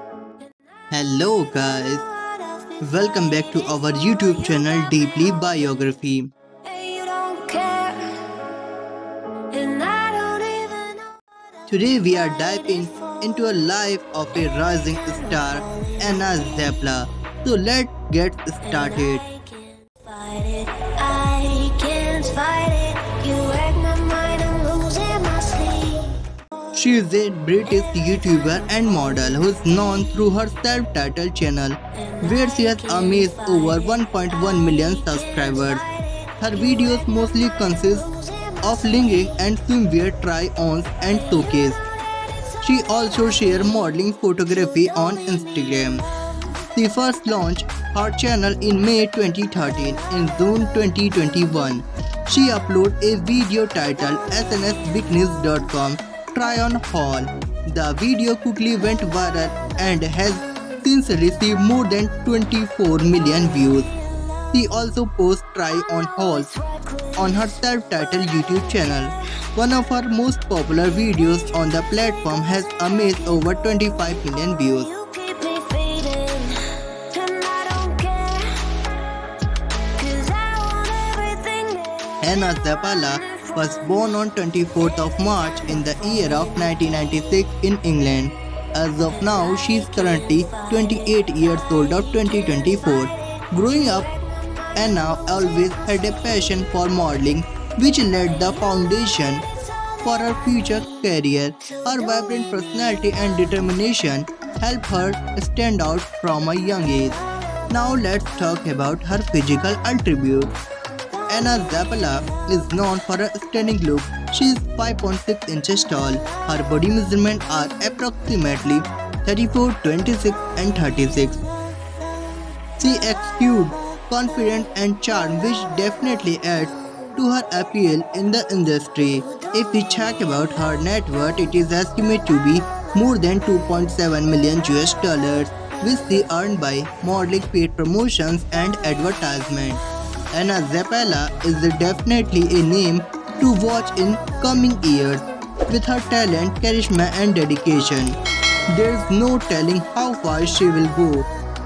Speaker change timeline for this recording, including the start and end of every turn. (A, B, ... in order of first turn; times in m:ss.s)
0:00.9-0:02.0 A
0:02.0-0:05.1 B
0:02.8-0:06.3 A
0:06.6-0:08.5 B
0:09.5-0:11.2 B
0:11.7-0:19.2 A
0:12.3-0:13.2 B
0:15.4-0:16.4 B
0:18.7-0:26.2 B
0:26.7-0:35.9 A
0:32.1-0:36.9 B
0:36.4-0:38.1 A
0:38.1-0:38.6 B
0:38.6-0:41.8 A
0:42.6-0:46.0 A
0:46.8-1:03.9 A
1:04.5-1:06.5 A
1:06.4-1:07.5 B
1:07.2-1:14.9 A
1:14.7-1:19.0 B
1:20.0-1:23.8 B
1:22.2-1:34.1 A
1:29.2-1:35.2 B
1:34.8-1:39.4 A
1:40.0-1:50.5 A
1:51.3-2:01.4 A
2:02.8-2:19.8 A
2:20.3-2:28.2 A
2:28.7-2:31.3 A